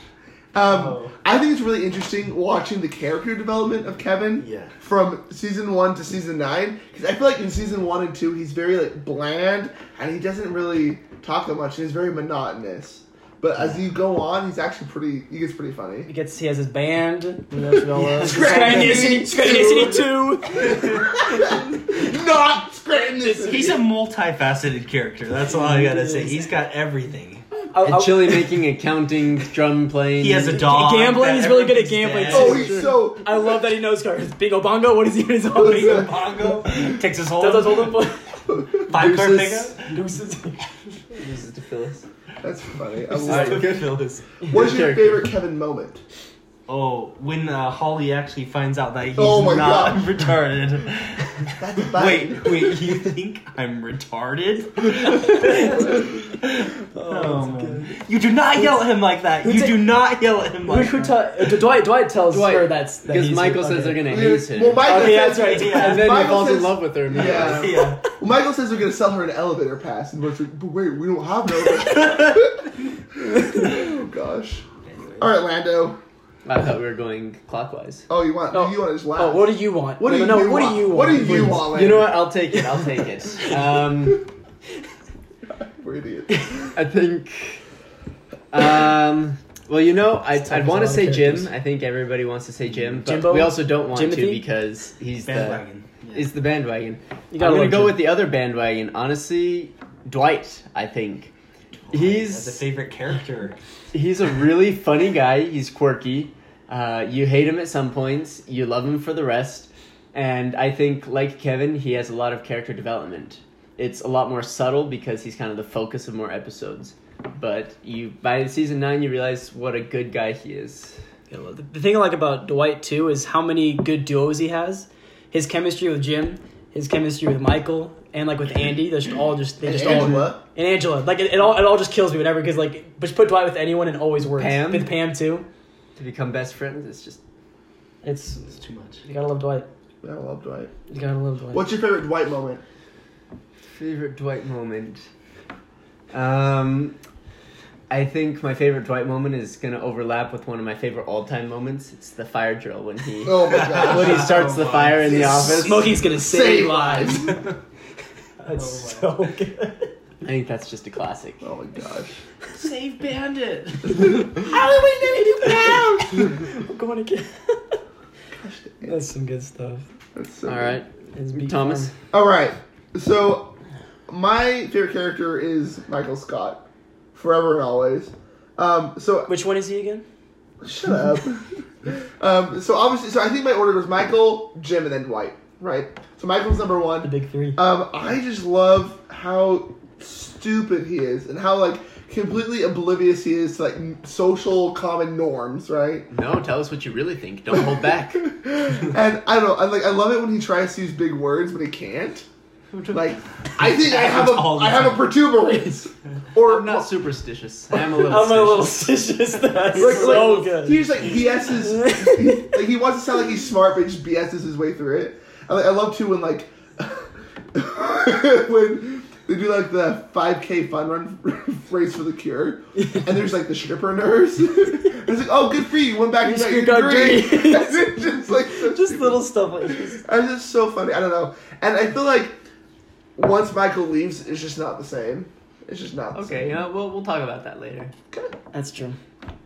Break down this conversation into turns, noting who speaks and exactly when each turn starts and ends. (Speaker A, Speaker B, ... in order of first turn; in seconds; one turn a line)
Speaker A: 0.5-16.1
Speaker B: 0.6-1.1
Speaker B: 4.4-4.7
Speaker C: 16.1-21.2
Speaker B: 17.9-19.2
Speaker A: 18.2-20.2
Speaker A: 20.7-23.8
Speaker B: 23.3-27.5
Speaker C: 25.6-26.3
Speaker C: 27.7-28.4
Speaker D: 27.8-30.7
Speaker B: 30.2-32.8
Speaker C: 30.7-36.1
Speaker D: 32.3-32.9
Speaker A: 32.3-33.6
Speaker A: 35.5-36.8
Speaker B: 35.5-38.0
Speaker C: 37.4-38.4
Speaker A: 38.5-39.2
Speaker B: 38.8-40.0
Speaker D: 39.0-39.7
Speaker C: 39.9-40.7
Speaker D: 41.1-42.0
Speaker A: 42.4-43.8
Speaker B: 43.1-43.9
Speaker D: 43.2-45.3
Speaker A: 44.5-46.0
Speaker B: 46.7-61.2
Speaker A: 49.1-50.3
Speaker A: 51.6-53.0
Speaker C: 55.4-56.0
Speaker C: 56.9-57.9
Speaker C: 58.5-58.9
Speaker C: 59.4-59.9
Speaker C: 60.6-64.1
Speaker D: 62.3-64.9
Speaker A: 64.0-74.6
Speaker C: 64.8-66.0
Speaker B: 65.0-66.3
Speaker D: 65.6-67.9
Speaker B: 67.1-68.2
Speaker B: 71.7-72.4
Speaker B: 74.8-75.3
Speaker A: 75.2-76.0
Speaker D: 76.4-78.0
Speaker A: 78.1-82.2
Speaker C: 78.5-81.8
Speaker D: 81.7-84.2
Speaker A: 85.6-86.7
Speaker D: 86.7-87.6
Speaker D: 88.5-101.3
Speaker C: 90.4-91.5
Speaker C: 93.0-94.4
Speaker B: 95.2-96.3
Speaker C: 97.3-98.0
Speaker B: 101.7-103.6
Speaker D: 101.9-102.6
Speaker D: 103.9-121.0
Speaker C: 121.3-135.5
Speaker A: 129.6-130.4
Speaker D: 134.4-134.9
Speaker D: 135.9-137.2
Speaker C: 138.0-138.4
Speaker B: 138.5-139.0
Speaker C: 139.0-139.7
Speaker A: 140.0-140.7
Speaker C: 140.9-141.7
Speaker A: 141.5-142.6
Speaker D: 143.7-145.0
Speaker D: 146.1-146.9
Speaker D: 147.9-156.0
Speaker A: 153.2-157.4
Speaker B: 153.5-155.5
Speaker C: 155.5-157.2
Speaker C: 158.4-159.9
Speaker B: 158.5-159.3
Speaker D: 160.2-161.4
Speaker A: 161.4-162.2
Speaker B: 162.5-164.5
Speaker A: 163.9-166.3
Speaker C: 164.4-167.8
Speaker A: 168.4-169.0
Speaker C: 168.8-169.8
Speaker A: 170.1-170.8
Speaker D: 170.4-171.9
Speaker C: 171.1-171.9
Speaker A: 172.1-173.5
Speaker A: 174.1-179.3
Speaker C: 179.3-180.0
Speaker A: 180.6-196.1
Speaker C: 187.0-187.6
Speaker D: 196.1-198.3
Speaker A: 198.2-202.2
Speaker D: 202.7-203.1
Speaker A: 202.9-206.9
Speaker B: 203.6-205.2
Speaker D: 206.4-208.8
Speaker C: 208.0-210.8
Speaker A: 209.7-232.4
Speaker D: 209.8-210.4
Speaker C: 211.7-212.6
Speaker C: 226.2-230.0
Speaker A: 233.2-236.6
Speaker D: 236.1-237.9
Speaker C: 238.5-239.0